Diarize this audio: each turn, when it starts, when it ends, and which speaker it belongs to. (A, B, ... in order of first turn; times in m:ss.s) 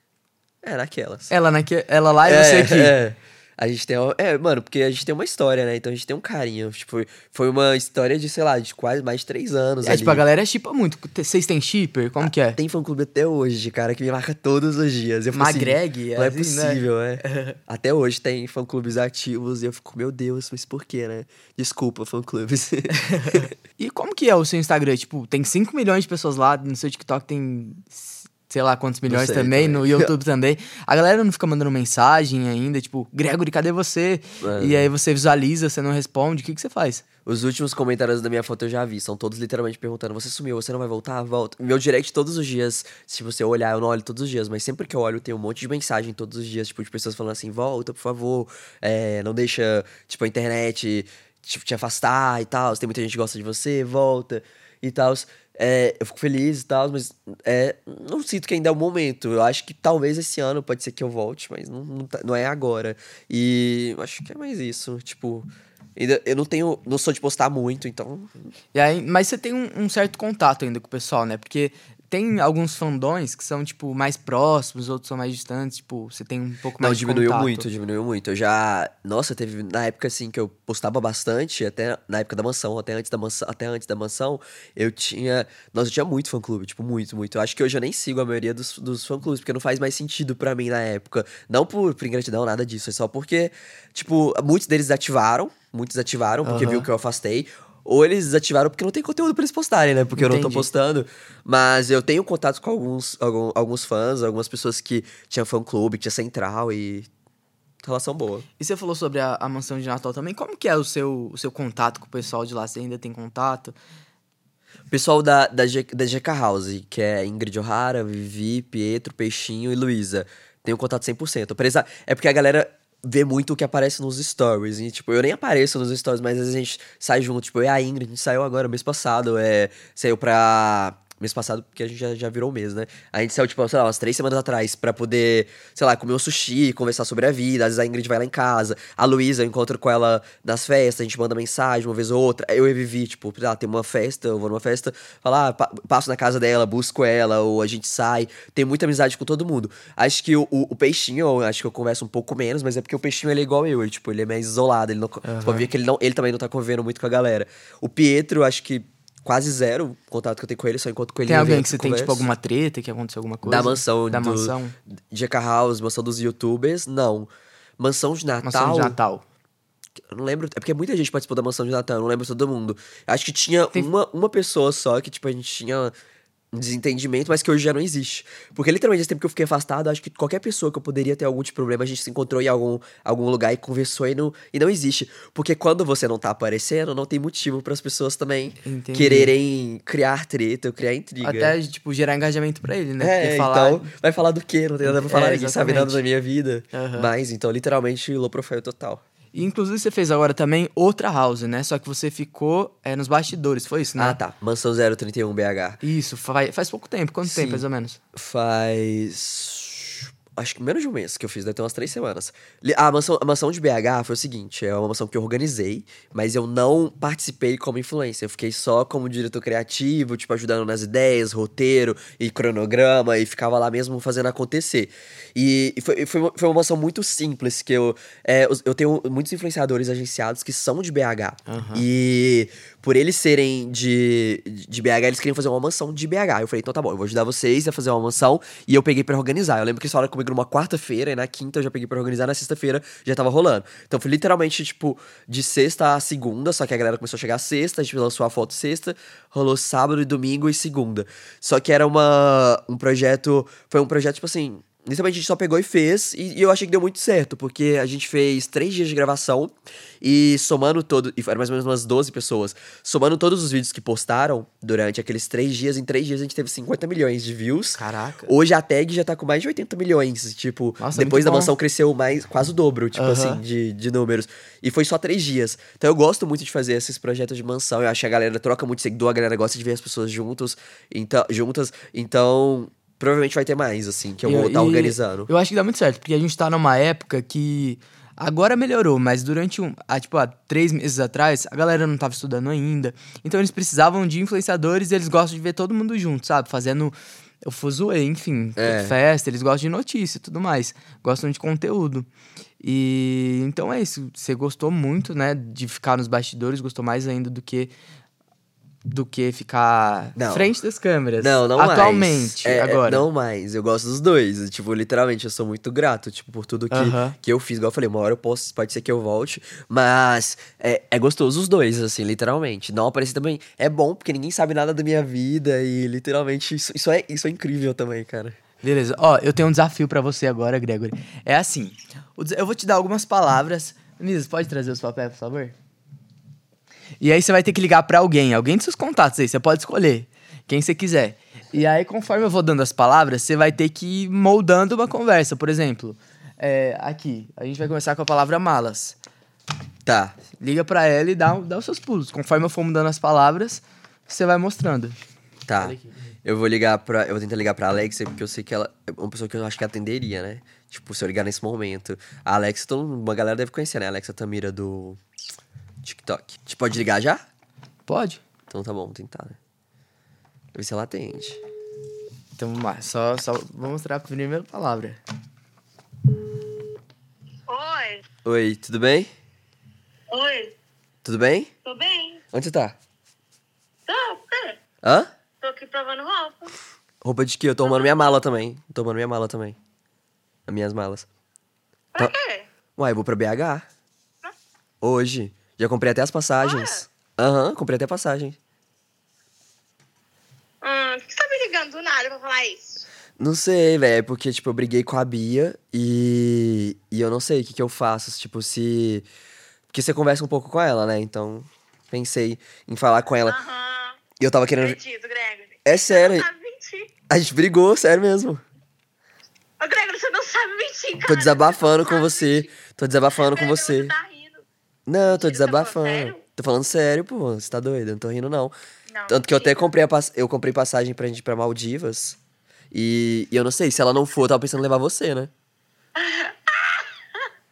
0:00.6-0:01.3 A
0:01.3-0:02.9 B
0:02.2-0:10.2 A
0:09.8-0:12.6 B
0:12.2-0:23.5 A
0:15.3-0:17.6 B
0:23.0-0:37.0 B
0:29.1-0:30.1 A
0:34.4-0:34.9 A
0:37.2-1:08.5 A
1:08.7-1:17.6 B
1:16.8-1:47.1 A
1:36.4-1:36.9 B
1:40.2-1:40.7 B
1:47.8-1:48.4 A
1:48.6-1:53.8 B
1:54.9-2:42.3 A
2:35.2-2:35.6 B
2:41.3-2:44.7 B
2:43.4-2:44.5 A
2:45.1-2:49.0 A
2:48.4-2:49.2 B
2:50.1-2:55.9 A
2:56.5-3:11.6 A
3:08.6-3:09.3 B
3:11.2-3:13.9 B
3:13.0-3:19.0 A
3:14.8-3:16.0 B
3:16.7-3:17.1 B
3:19.3-3:24.2 B
3:24.0-3:25.8 A
3:25.8-3:28.0 B
3:27.2-4:45.3 A
3:51.5-3:51.8 B
4:27.8-4:28.3 B
4:30.8-4:31.5 B
4:32.9-4:33.4 B
4:44.2-5:02.1 B
4:58.6-4:58.9 A
5:02.6-5:07.7 B
5:08.9-5:13.0 B
5:10.2-5:10.5 A
5:11.2-5:28.4 A
5:16.7-5:17.2 B
5:28.6-5:35.5 B
5:37.0-5:49.0 B
5:49.8-5:50.2 A
5:50.4-5:55.0 B
5:55.5-6:05.0 A
5:55.6-5:55.9 B
6:05.8-6:07.2 A
6:07.9-6:08.2 B
6:08.5-6:09.4 A
6:10.5-6:11.4 A
6:12.4-6:15.0 B
6:17.5-6:18.0 C
6:18.2-6:19.1 A
6:20.1-6:20.5 C
6:21.0-6:21.5 A
6:21.6-6:22.2 C
6:22.3-6:22.8 A
6:23.9-6:24.6 C
6:24.8-6:25.1 A
6:25.4-6:26.5 C
6:27.0-6:29.6 A
6:27.6-6:28.2 C
6:30.5-6:31.1 A
6:31.9-6:32.5 C
6:32.8-6:33.6 A
6:34.8-6:38.4 A
6:36.4-6:36.8 C
6:40.6-6:42.8 C
6:43.2-6:49.1 A
6:49.7-6:53.4 A
6:53.2-6:54.0 C
6:54.2-6:54.8 A
6:54.6-6:56.9 C
6:55.6-6:56.3 A
6:57.1-6:58.4 A
6:59.6-7:02.5 C
7:01.0-7:03.9 A
7:03.2-7:04.4 C
7:04.9-7:08.5 A
7:05.1-7:06.2 C
7:08.9-7:09.7 C
7:09.1-7:12.2 A
7:12.7-7:15.3 A
7:16.0-7:17.3 C